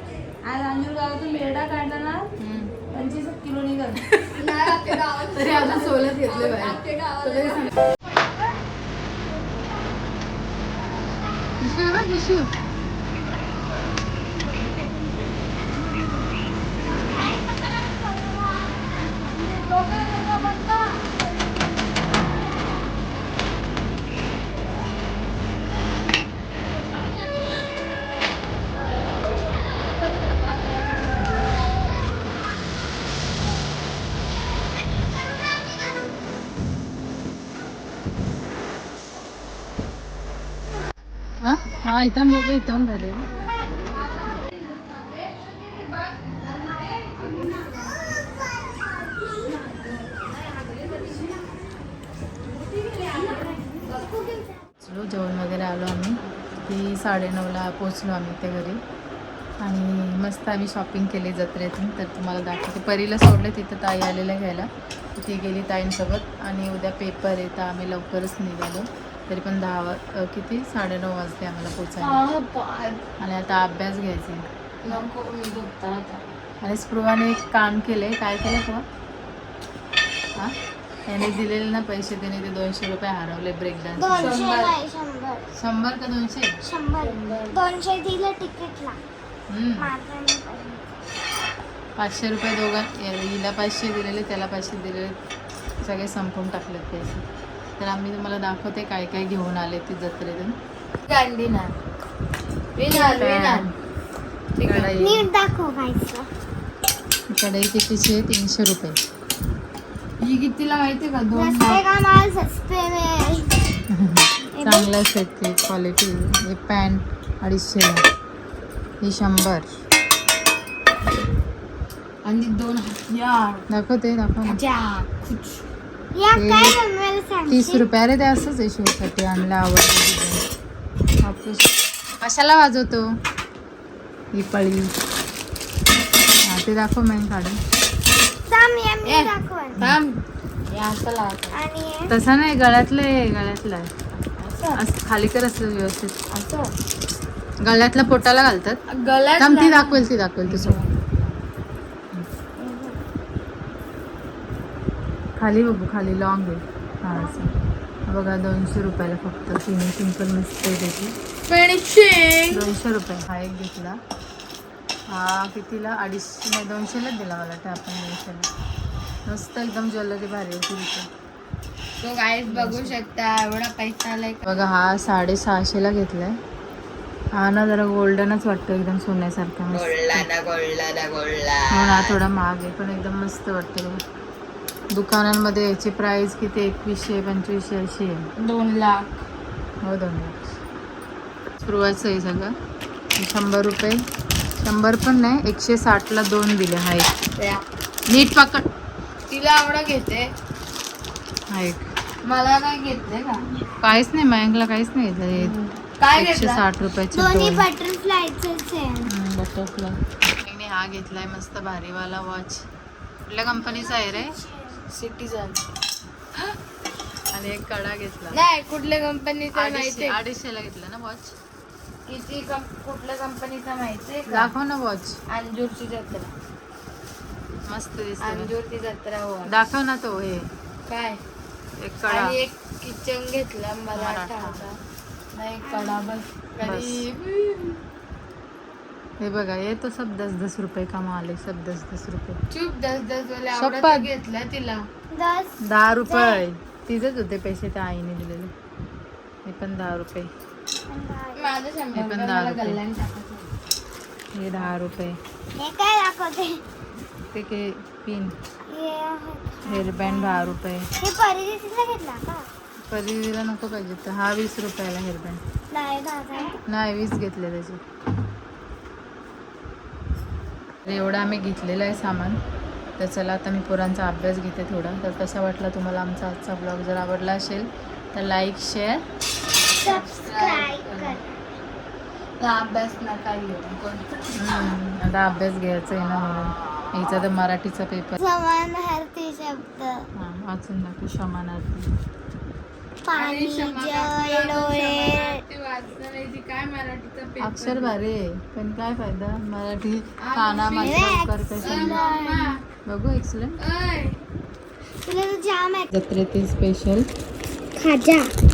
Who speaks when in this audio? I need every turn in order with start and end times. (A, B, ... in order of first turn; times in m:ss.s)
0:00.4-0:02.3 A
0:02.4-0:02.8 B
0:02.9-0:07.7 A
0:04.0-0:07.7 B
0:11.6-0:12.5 B
0:41.4-0:43.3 B
0:50.8-0:51.1 A
0:52.8-0:54.5 C
0:54.8-0:58.8 B
0:59.6-1:12.2 B
1:12.0-1:13.0 A
1:13.2-1:14.5 B
1:14.8-1:16.3 A
1:16.6-1:18.8 B
1:21.1-1:24.4 B
1:24.0-1:25.4 C
1:24.2-1:24.8 A
1:25.6-1:26.6 B
1:26.6-1:29.0 C
1:27.0-1:27.6 A
1:29.5-1:29.9 B
1:29.8-1:31.0 C
1:32.0-1:35.2 B
1:35.8-1:37.2 B
1:37.8-1:40.6 B
1:41.0-1:41.8 A
1:42.8-1:43.7 A
1:43.0-1:43.7 B
1:44.6-1:45.0 A
1:44.6-1:45.3 B
1:45.0-1:46.3 C
1:47.3-1:49.0 B
1:50.2-1:51.8 A
1:51.3-1:53.5 C
1:53.9-1:58.0 B
1:54.5-1:54.9 C
1:59.0-1:59.7 B
2:02.2-2:03.6 A
2:03.7-2:04.6 B
2:04.4-2:05.6 A
2:06.1-2:07.9 C
2:06.4-2:06.8 B
2:07.5-2:10.5 B
2:11.2-2:13.1 B
2:14.3-2:14.9 B
2:16.5-2:17.6 B
2:18.5-2:19.8 C
2:19.0-2:21.6 A
2:21.5-2:22.1 C
2:22.1-2:23.9 B
2:24.4-2:24.8 A
2:24.8-2:26.2 B
2:26.3-2:26.7 A
2:27.6-2:28.8 B
2:28.9-2:31.1 A
2:29.4-2:30.8 B
2:32.6-2:33.0 C
2:35.4-2:37.6 B
2:38.1-2:41.2 B
2:41.5-2:42.7 A
2:42.5-2:44.0 B
2:45.1-2:48.5 B
2:49.3-2:51.1 B
2:52.0-2:54.4 A
2:52.5-2:53.0 B
2:54.5-2:56.4 B
2:57.4-3:00.3 B
2:59.7-3:02.2 A
3:01.7-3:04.0 B
3:04.9-3:08.2 B
3:08.4-3:09.2 A
3:09.8-3:10.4 B
3:11.6-3:12.5 B
3:13.2-3:14.0 B
3:14.6-3:17.1 B
3:17.4-3:17.6 A
3:18.1-3:18.6 B
3:19.3-3:20.3 A
3:21.5-3:21.9 B
3:22.2-3:23.5 A
3:23.8-3:25.5 B
3:25.4-3:26.6 A
3:26.2-3:27.7 B
3:27.1-3:29.1 C
3:29.1-3:32.7 B
3:33.3-3:34.4 B
3:34.9-3:35.6 A
3:37.3-3:38.4 B
3:38.3-3:40.2 A
3:39.5-3:41.4 B
3:42.1-3:44.5 A
3:44.3-3:45.2 B
3:45.3-3:46.3 A
3:47.7-3:48.5 B
3:48.2-3:49.5 A
3:49.5-3:50.5 B
3:50.9-3:51.2 A
3:51.8-3:52.4 B
3:52.1-3:54.8 A
3:54.0-3:54.6 B
3:55.4-3:57.8 A
3:55.6-3:56.1 C
3:56.6-3:57.0 B
3:59.2-4:02.4 B
4:02.5-4:04.8 A
4:03.5-4:04.1 B
4:05.1-4:06.4 C
4:05.6-4:08.5 B
4:09.4-4:10.3 B
4:10.9-4:11.6 C
4:11.4-4:13.5 A
4:11.9-4:12.8 B
4:14.4-4:15.2 B
4:15.6-4:16.6 C
4:17.3-4:18.3 B
4:18.7-4:22.5 C
4:19.7-4:20.9 B
4:22.9-4:25.4 B
4:25.7-4:26.6 C
4:26.7-4:27.8 B
4:30.8-4:32.4 B
4:33.0-4:39.0 B
4:39.8-4:41.4 C
4:39.8-4:41.2 A
4:42.4-4:44.8 A
4:44.3-4:48.2 B
4:48.2-4:50.1 C
4:50.2-4:51.9 B
4:53.0-4:55.4 C
4:53.1-4:58.0 A
4:57.4-5:02.0 B
5:00.2-5:01.1 A
5:00.8-5:02.5 C
5:01.6-5:02.6 A
5:02.8-5:03.6 B
5:03.6-5:04.2 A
5:05.0-5:05.9 C
5:05.9-5:07.1 B
5:07.8-5:08.3 C